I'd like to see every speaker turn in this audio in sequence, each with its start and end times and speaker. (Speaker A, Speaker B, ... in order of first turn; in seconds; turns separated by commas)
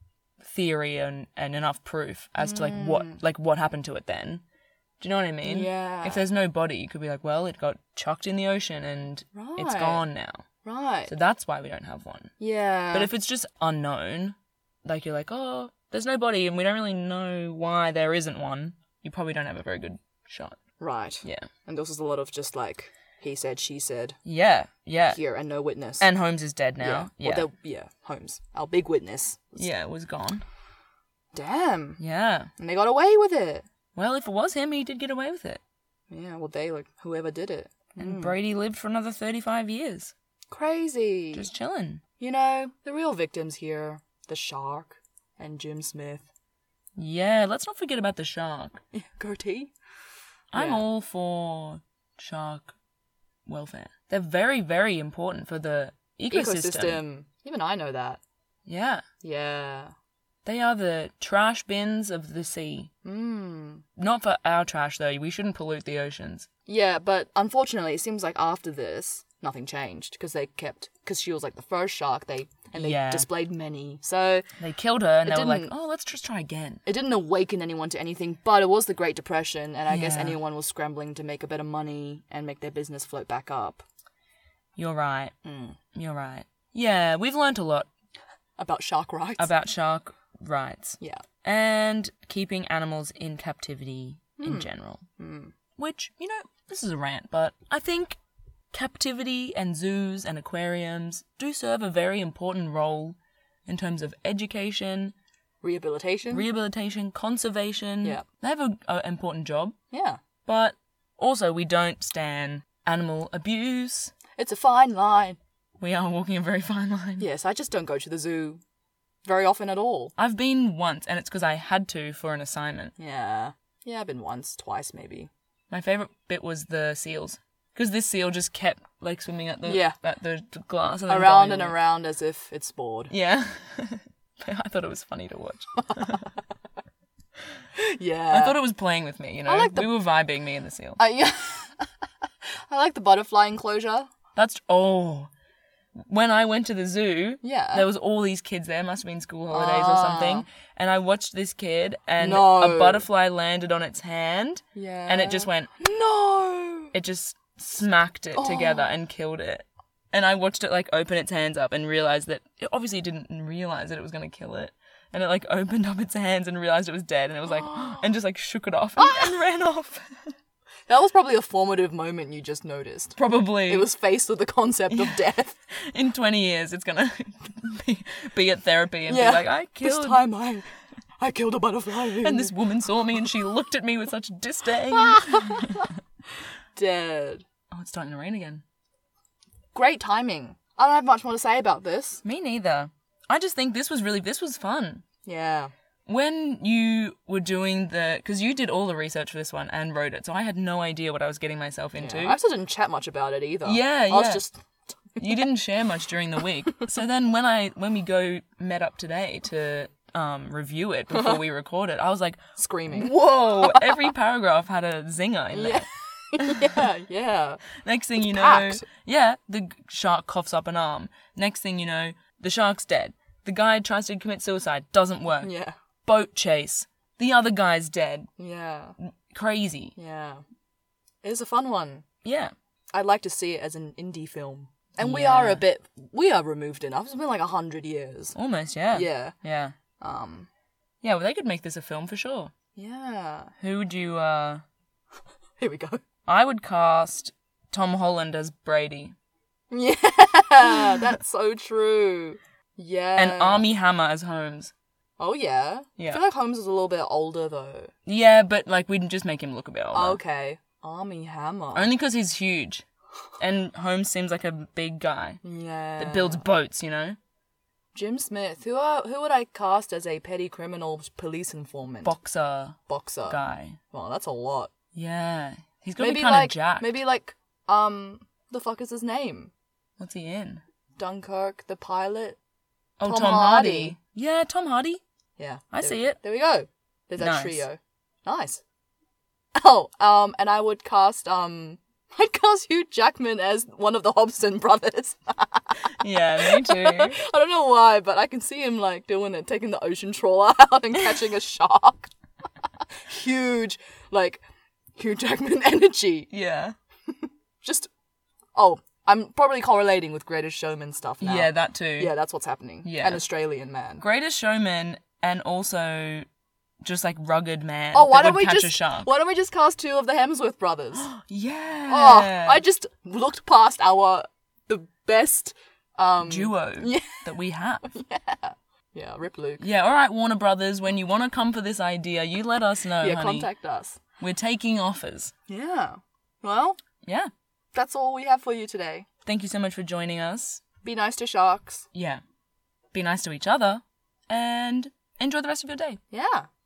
Speaker A: 0.4-4.4, Speaker B: 2.4-3.2, Speaker A: 5.0-10.4, Speaker B: 5.4-6.3, Speaker B: 9.3-10.0, Speaker B: 10.6-11.1, Speaker A: 11.1-12.3, Speaker B: 12.4-13.1, Speaker A: 12.9-20.6, Speaker B: 20.8-24.2, Speaker A: 24.2-25.2, Speaker B: 25.1-26.1, Speaker A: 26.0-27.5, Speaker B: 26.8-29.7, Speaker A: 29.6-30.4, Speaker B: 31.3-32.0, Speaker A: 32.0-32.5, Speaker B: 32.6-33.7, Speaker A: 34.0-35.6, Speaker B: 36.1-38.4, Speaker A: 38.0-40.1, Speaker B: 40.5-41.5, Speaker A: 41.3-42.0, Speaker B: 42.2-46.3, Speaker A: 47.0-48.8, Speaker B: 48.9-49.7, Speaker A: 50.5-52.8, Speaker B: 50.5-50.9, Speaker A: 53.5-57.0, Speaker B: 56.3-58.2, Speaker A: 58.7-59.0, Speaker B: 59.2-59.9, Speaker A: 60.5-62.9, Speaker B: 63.0-63.8, Speaker A: 64.0-66.5, Speaker B: 66.7-74.5, Speaker A: 72.7-73.3, Speaker A: 74.6-76.8, Speaker B: 75.2-75.7, Speaker B: 76.8-83.8, Speaker A: 79.9-80.4, Speaker A: 84.8-85.3, Speaker B: 85.4-85.8, Speaker A: 86.0-87.9, Speaker B: 88.6-89.5, Speaker A: 89.4-95.0, Speaker B: 94.4-95.5, Speaker A: 95.8-98.2, Speaker A: 98.7-105.1, Speaker B: 105.6-106.5, Speaker A: 106.3-109.8, Speaker B: 109.9-110.2, Speaker A: 110.5-114.1, Speaker B: 114.4-115.4, Speaker A: 115.8-117.3, Speaker B: 117.2-118.6, Speaker B: 119.2-120.1, Speaker A: 120.2-122.9, Speaker B: 123.0-125.3, Speaker A: 125.7-131.8, Speaker B: 129.7-130.0, Speaker B: 131.1-133.1, Speaker A: 133.1-136.2, Speaker B: 137.8-138.6, Speaker A: 138.3-141.0, Speaker B: 139.5-139.9, Speaker B: 141.0-141.9, Speaker B: 142.7-144.1, Speaker A: 144.3-145.3, Speaker A: 146.0-155.7, Speaker B: 147.4-147.9, Speaker B: 149.5-150.5, Speaker B: 152.2-153.1, Speaker B: 154.8-156.9, Speaker A: 156.9-170.3, Speaker B: 158.3-158.9, Speaker B: 167.5-168.0, Speaker B: 169.0-169.4, Speaker B: 170.9-175.6, Speaker A: 173.2-173.9, Speaker A: 174.9-175.2, Speaker A: 175.8-180.3, Speaker B: 179.1-180.7, Speaker B: 181.2-182.5, Speaker A: 182.2-185.9, Speaker B: 184.9-185.9, Speaker B: 186.7-187.4, Speaker A: 187.7-188.6, Speaker B: 189.8-192.2, Speaker A: 192.2-195.0, Speaker B: 195.2-195.7, Speaker A: 196.1-202.4, Speaker B: 202.0-204.6, Speaker A: 203.7-204.4, Speaker A: 205.2-216.9, Speaker B: 211.1-211.4, Speaker B: 212.6-214.0, Speaker B: 215.5-217.7, Speaker A: 217.8-225.5, Speaker B: 218.2-218.8, Speaker B: 225.4-225.8, Speaker A: 226.1-228.3, Speaker B: 228.4-229.0, Speaker A: 229.0-229.9, Speaker B: 230.0-230.4, Speaker B: 231.2-232.1, Speaker A: 232.2-232.5, Speaker B: 232.9-238.4, Speaker A: 235.0-235.6, Speaker A: 238.3-239.8, Speaker B: 238.9-239.3, Speaker B: 240.0-240.5, Speaker A: 241.0-242.5, Speaker B: 242.8-243.5, Speaker A: 243.6-244.6, Speaker B: 245.6-246.0, Speaker A: 246.3-249.2, Speaker B: 249.7-253.7, Speaker A: 253.2-254.7, Speaker B: 255.2-257.9, Speaker A: 258.1-260.2, Speaker B: 259.9-261.9, Speaker A: 261.8-262.9, Speaker A: 263.4-265.4, Speaker B: 265.4-266.4, Speaker A: 266.0-267.2, Speaker B: 267.9-272.1, Speaker A: 272.0-273.8, Speaker B: 272.9-273.4, Speaker B: 273.9-274.7, Speaker A: 274.9-277.0, Speaker B: 276.0-279.5, Speaker A: 280.0-280.6, Speaker B: 281.0-282.4, Speaker A: 283.0-285.0, Speaker B: 283.0-284.0, Speaker B: 285.4-288.6, Speaker A: 285.7-286.2, Speaker A: 287.2-287.6, Speaker B: 289.6-302.1, Speaker A: 295.9-297.2, Speaker B: 303.1-304.4, Speaker B: 305.0-306.3, Speaker A: 306.3-306.8, Speaker B: 307.6-307.9, Speaker B: 308.6-314.0, Speaker A: 311.2-312.1, Speaker A: 312.8-313.2, Speaker A: 314.0-316.3, Speaker A: 316.8-319.1, Speaker B: 317.9-321.1, Speaker A: 321.0-322.6, Speaker B: 321.9-327.2, Speaker A: 326.2-327.9, Speaker B: 327.9-329.6, Speaker A: 329.6-333.5, Speaker B: 333.0-334.0, Speaker A: 334.2-335.3, Speaker B: 335.5-336.8, Speaker A: 337.1-337.3, Speaker B: 337.7-339.1, Speaker A: 339.2-340.6, Speaker B: 340.8-341.9, Speaker A: 341.9-342.2, Speaker A: 342.9-346.0, Speaker B: 346.1-346.5